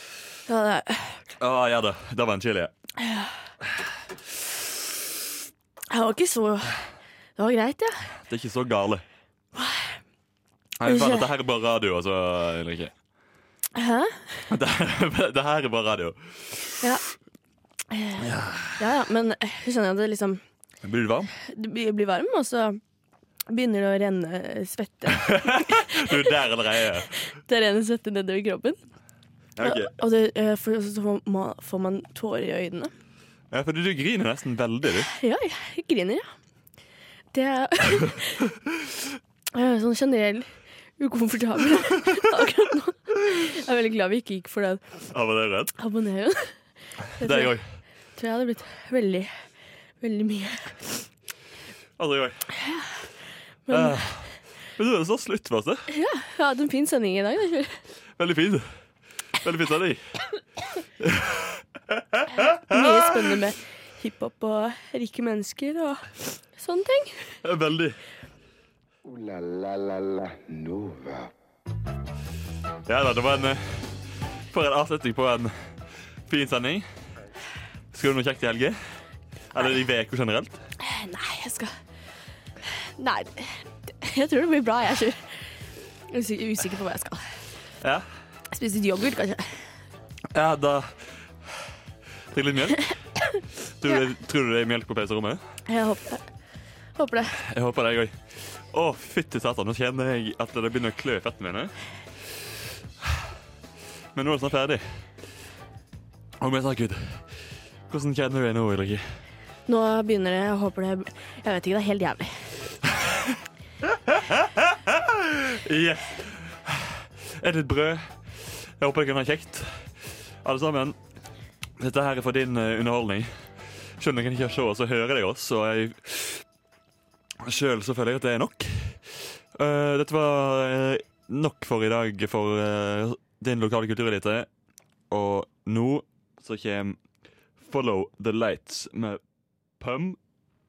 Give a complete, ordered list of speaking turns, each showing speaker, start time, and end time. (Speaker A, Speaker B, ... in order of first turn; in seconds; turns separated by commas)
Speaker A: 0.5-1.2, Speaker B: 1.4-2.7, Speaker A: 3.0-3.5, Speaker A: 5.9-8.2, Speaker B: 8.2-9.0, Speaker A: 9.5-10.0, Speaker B: 10.8-12.9, Speaker A: 10.8-11.3, Speaker A: 13.7-14.5, Speaker B: 14.5-16.8, Speaker A: 17.9-18.2, Speaker B: 18.2-18.8, Speaker A: 18.8-20.4, Speaker B: 20.8-21.3, Speaker A: 21.4-22.8, Speaker A: 23.5-26.2, Speaker B: 25.2-27.2, Speaker A: 27.3-28.8, Speaker B: 29.6-29.9, Speaker A: 29.6-32.9, Speaker B: 33.5-35.1, Speaker A: 35.1-36.3, Speaker A: 37.3-38.5, Speaker A: 39.5-45.1, Speaker B: 45.1-45.7, Speaker A: 45.8-51.1, Speaker B: 47.2-47.8, Speaker B: 52.0-52.5, Speaker A: 52.6-53.0, Speaker A: 53.6-54.0, Speaker B: 53.7-55.9, Speaker A: 55.9-57.8, Speaker B: 58.1-60.4, Speaker B: 61.0-63.0, Speaker A: 62.4-67.4, Speaker B: 67.4-68.0, Speaker C: 69.0-71.3, Speaker B: 72.8-77.2, Speaker B: 77.9-80.6, Speaker A: 80.8-81.8, Speaker A: 82.6-87.5, Speaker B: 87.8-88.1, Speaker A: 88.5-89.8, Speaker B: 90.3-91.5, Speaker B: 92.3-95.6, Speaker A: 95.7-96.4, Speaker A: 96.9-97.4, Speaker B: 97.4-102.5, Speaker B: 104.1-105.2, Speaker B: 106.4-109.2, Speaker A: 109.7-112.7, Speaker B: 113.0-113.4, Speaker B: 113.9-121.0, Speaker B: 121.8-126.5, Speaker B: 127.4-134.5, Speaker B: 135.1-139.2, Speaker B: 139.8-140.2